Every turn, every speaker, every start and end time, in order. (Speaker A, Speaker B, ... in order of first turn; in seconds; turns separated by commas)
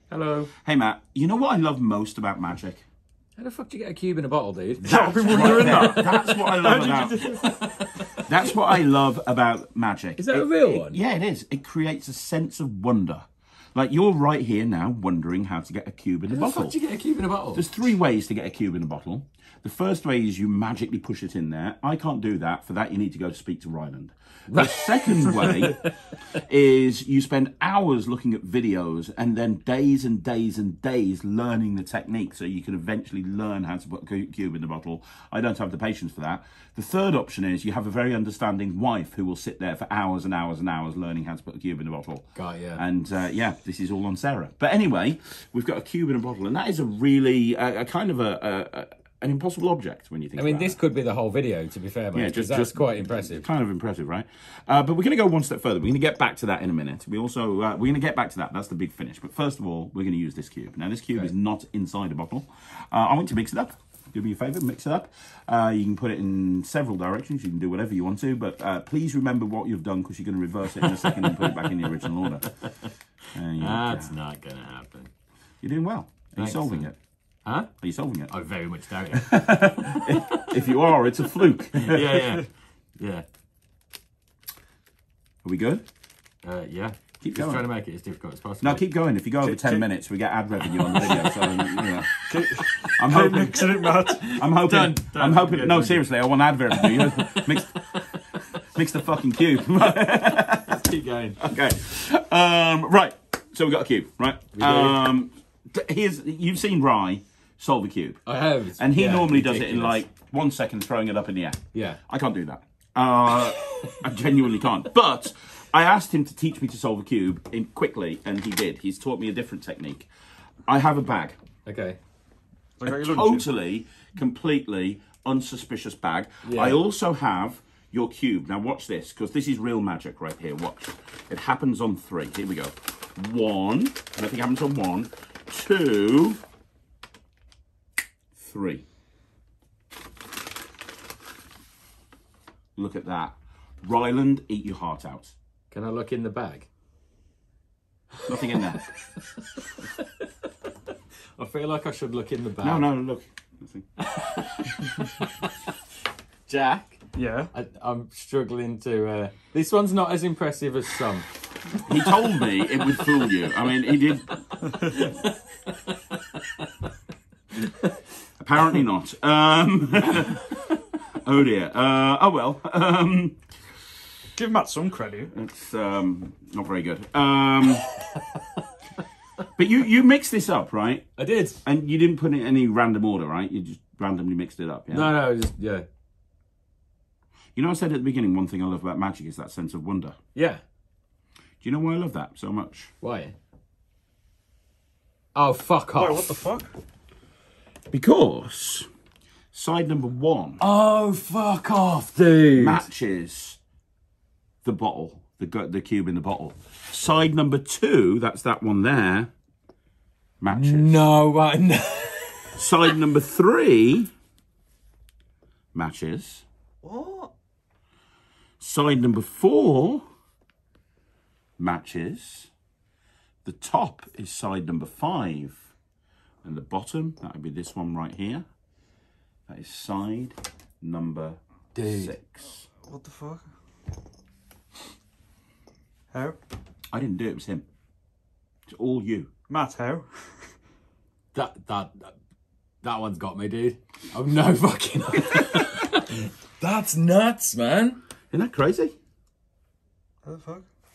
Speaker A: 0.1-0.5, Speaker B: 0.5-2.9, Speaker A: 3.4-6.5, Speaker C: 4.8-7.7, Speaker B: 5.3-7.3, Speaker A: 7.2-8.6, Speaker B: 8.2-16.8, Speaker A: 10.2-11.0, Speaker A: 16.3-17.7, Speaker B: 17.5-25.8, Speaker A: 24.5-25.9, Speaker B: 26.4-50.8, Speaker A: 42.3-42.8, Speaker A: 50.4-53.5, Speaker B: 52.1-72.5, Speaker A: 70.8-72.7, Speaker B: 73.3-74.1, Speaker A: 73.6-75.1, Speaker B: 75.6-77.0, Speaker A: 76.4-76.9, Speaker A: 77.4-77.7, Speaker B: 77.8-78.3, Speaker A: 78.3-80.4, Speaker B: 79.2-82.2, Speaker A: 81.8-83.2, Speaker C: 82.2-82.4, Speaker B: 85.4-85.8, Speaker A: 86.4-88.8, Speaker B: 87.2-87.6, Speaker B: 88.6-92.2, Speaker C: 89.4-89.8, Speaker A: 90.9-91.8, Speaker C: 92.3-94.3, Speaker B: 93.0-97.8, Speaker A: 94.0-96.0, Speaker A: 96.7-98.4, Speaker B: 98.7-100.8, Speaker A: 100.7-101.4, Speaker B: 101.4-108.2, Speaker A: 104.5-105.0, Speaker A: 108.2-110.0, Speaker B: 108.8-120.1, Speaker A: 111.7-112.0, Speaker B: 120.7-121.4, Speaker A: 121.6-122.0, Speaker C: 122.8-123.5, Speaker B: 122.8-136.4, Speaker A: 126.4-126.8, Speaker B: 138.3-138.8, Speaker B: 142.8-145.3, Speaker A: 145.7-146.7, Speaker B: 148.2-148.8, Speaker A: 148.8-150.0, Speaker A: 151.4-152.8, Speaker B: 152.6-153.8, Speaker A: 154.0-155.5, Speaker A: 156.5-157.0, Speaker C: 157.1-157.5, Speaker A: 157.5-161.3, Speaker B: 161.8-164.4, Speaker A: 164.6-165.4, Speaker B: 168.4-173.4, Speaker C: 174.3-175.3, Speaker B: 175.3-177.8, Speaker B: 179.6-185.2, Speaker A: 181.2-181.6, Speaker A: 184.9-185.8, Speaker B: 187.5-190.2, Speaker A: 190.3-190.6, Speaker B: 191.6-192.9, Speaker A: 193.0-193.3, Speaker A: 195.3-196.3, Speaker C: 195.9-196.8, Speaker B: 197.9-198.9, Speaker B: 199.5-200.6, Speaker A: 200.6-202.9, Speaker B: 202.6-203.6, Speaker B: 204.6-209.3, Speaker B: 210.4-211.0, Speaker A: 210.5-212.9, Speaker B: 212.6-214.1, Speaker B: 215.7-216.4, Speaker C: 216.8-217.3, Speaker B: 218.6-220.0, Speaker B: 221.6-222.5, Speaker B: 223.4-225.7, Speaker B: 226.4-228.4, Speaker B: 229.5-232.7, Speaker A: 231.7-232.2, Speaker C: 232.8-233.4, Speaker C: 236.1-236.4, Speaker B: 236.9-237.6, Speaker B: 238.7-239.3, Speaker C: 239.5-240.5, Speaker A: 241.3-242.1, Speaker A: 242.8-248.0, Speaker B: 248.3-248.9, Speaker C: 250.2-250.7